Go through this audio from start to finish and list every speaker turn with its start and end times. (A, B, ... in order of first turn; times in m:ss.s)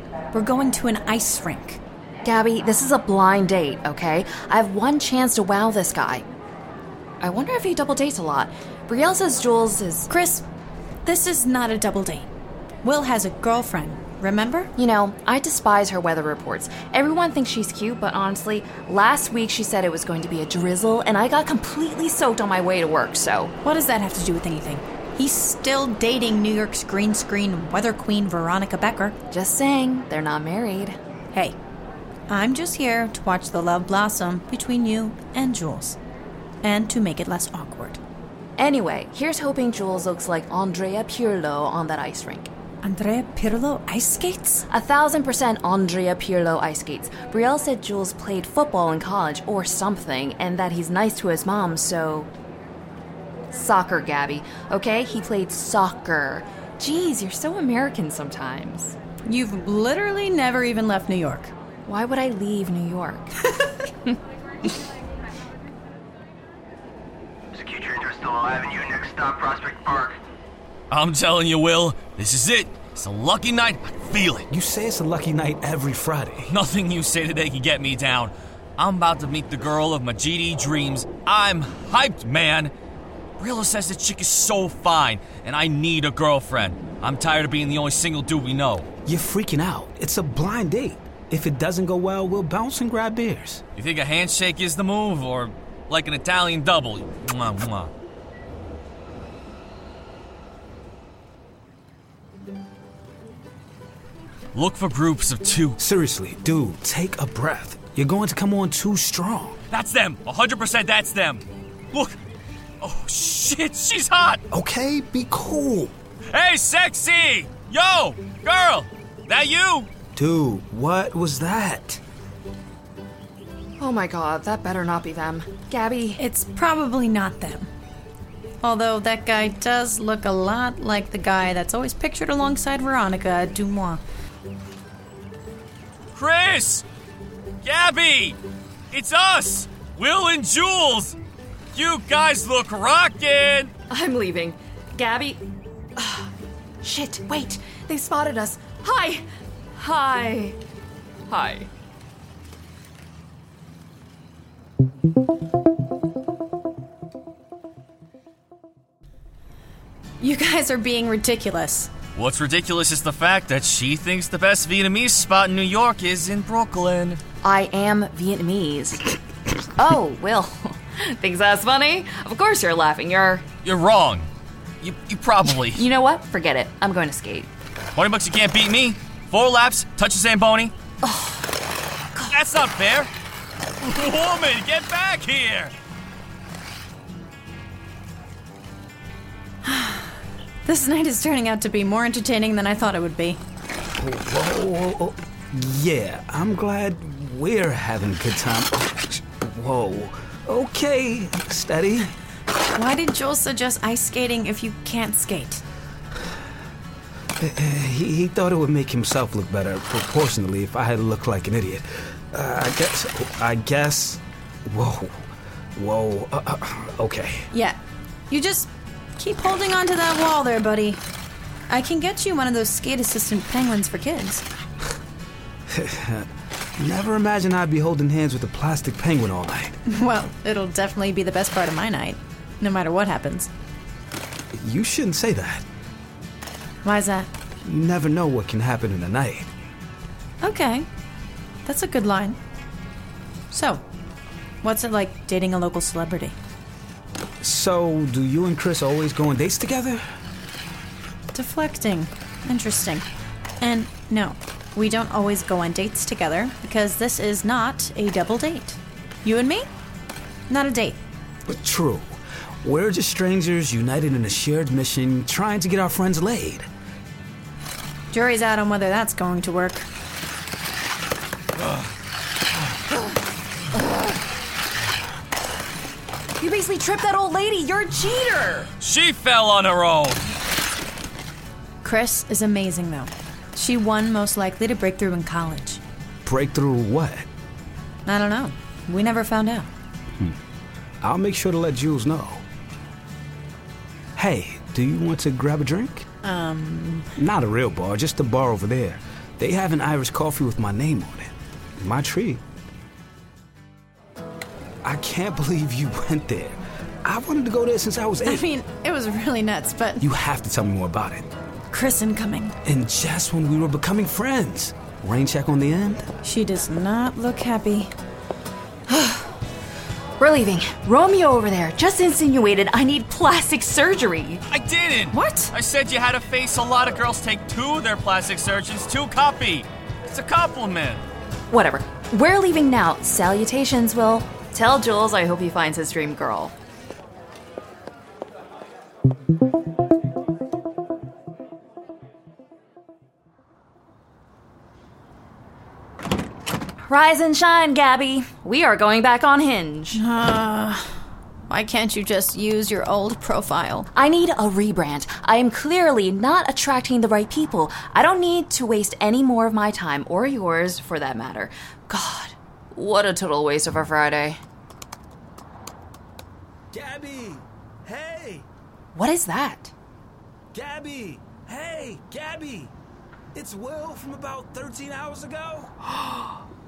0:00.3-0:01.8 A
0:02.2-0:06.2 B
0:07.2-0:10.1 B
0:10.1-0:10.4 A
0:11.0-0:12.3 A
0:12.8-0:14.7 A
0:14.8-0:23.5 B
0:23.6-0:29.2 A
0:29.3-0:31.0 B
0:32.3-0:36.0 A
0:36.6-0:38.0 A
0:38.6-0:42.5 B
0:42.8-0:44.7 A
0:44.7-0:52.3 B
0:53.5-0:59.0 B
0:59.2-1:01.5 A
1:01.9-1:04.1 B
1:07.5-1:10.2 C
1:10.9-1:14.5 D
1:14.5-1:16.5 E
1:16.5-1:22.7 D
1:23.4-1:28.9 D
1:29.1-1:33.6 E
1:33.8-1:37.9 D
1:44.5-1:45.8 D
1:45.8-1:49.6 E
1:49.7-1:52.2 D
1:52.8-1:54.4 D
1:54.5-1:55.9 E
1:56.3-1:59.9 D
2:00.2-2:02.0 E
2:03.8-2:06.2 B
2:06.2-2:07.7 A
2:08.6-2:14.0 A
2:16.1-2:16.8 D
2:17.6-2:18.4 D
2:18.9-2:21.2 D
2:21.7-2:23.7 D
2:23.9-2:25.4 B
2:26.0-2:26.3 B
2:26.8-2:29.2 B
2:29.8-2:30.6 B
2:31.3-2:31.7 B
2:40.2-2:41.9 A
2:42.2-2:47.2 D
2:47.4-2:49.2 B
2:49.8-2:53.4 B
2:53.6-2:54.3 D
2:54.8-2:55.8 D
2:55.6-2:57.5 B
2:58.0-3:00.7 D
3:01.0-3:01.6 B
3:02.3-3:03.1 D
3:03.8-3:05.7 D
3:09.6-3:10.1 A
3:10.6-3:13.4 A
3:14.0-3:22.2 E
3:22.8-3:25.6 A
3:27.4-3:37.5 E
3:37.5-3:37.8 A
3:38.3-3:41.0 A
3:41.7-3:44.4 A
3:45.7-3:49.8 E
3:49.9-3:53.5 A
3:54.6-3:55.6 E
3:56.8-3:57.3 A
3:57.6-3:59.5 E
4:00.4-4:00.9 A
4:01.6-4:02.4 A
4:03.5-4:03.8 A
4:04.6-4:06.4 A
4:07.4-4:10.0 E
4:11.3-4:13.1 A
4:13.6-4:19.7 A
4:20.5-4:21.0 A
4:21.5-4:26.7 E
4:28.1-4:29.9 A
4:36.4-4:38.7 B
4:38.8-4:40.2 D
4:41.8-4:45.8 A
4:46.2-4:47.3 E
4:48.1-4:49.7 A
4:51.0-4:52.4 E
4:54.2-4:56.1 E
4:56.2-4:57.1 A
4:57.2-5:02.4 E
5:04.8-5:08.4 E
5:08.2-5:10.1 A
5:10.0-5:11.3 E
5:11.7-5:12.6 A
5:12.6-5:16.1 E
5:16.2-5:17.9 A
5:18.9-5:19.3 B
5:20.2-5:24.4 B
5:24.5-5:31.0 D
5:25.1-5:25.5 A
5:31.5-5:36.6 B
5:46.8-5:50.0 B
5:49.9-5:50.9 A
5:51.5-5:53.9 A
5:54.0-6:04.4 B
6:06.7-6:08.5 E
6:09.0-6:09.7 B
6:10.5-6:12.7 E
6:13.3-6:15.8 E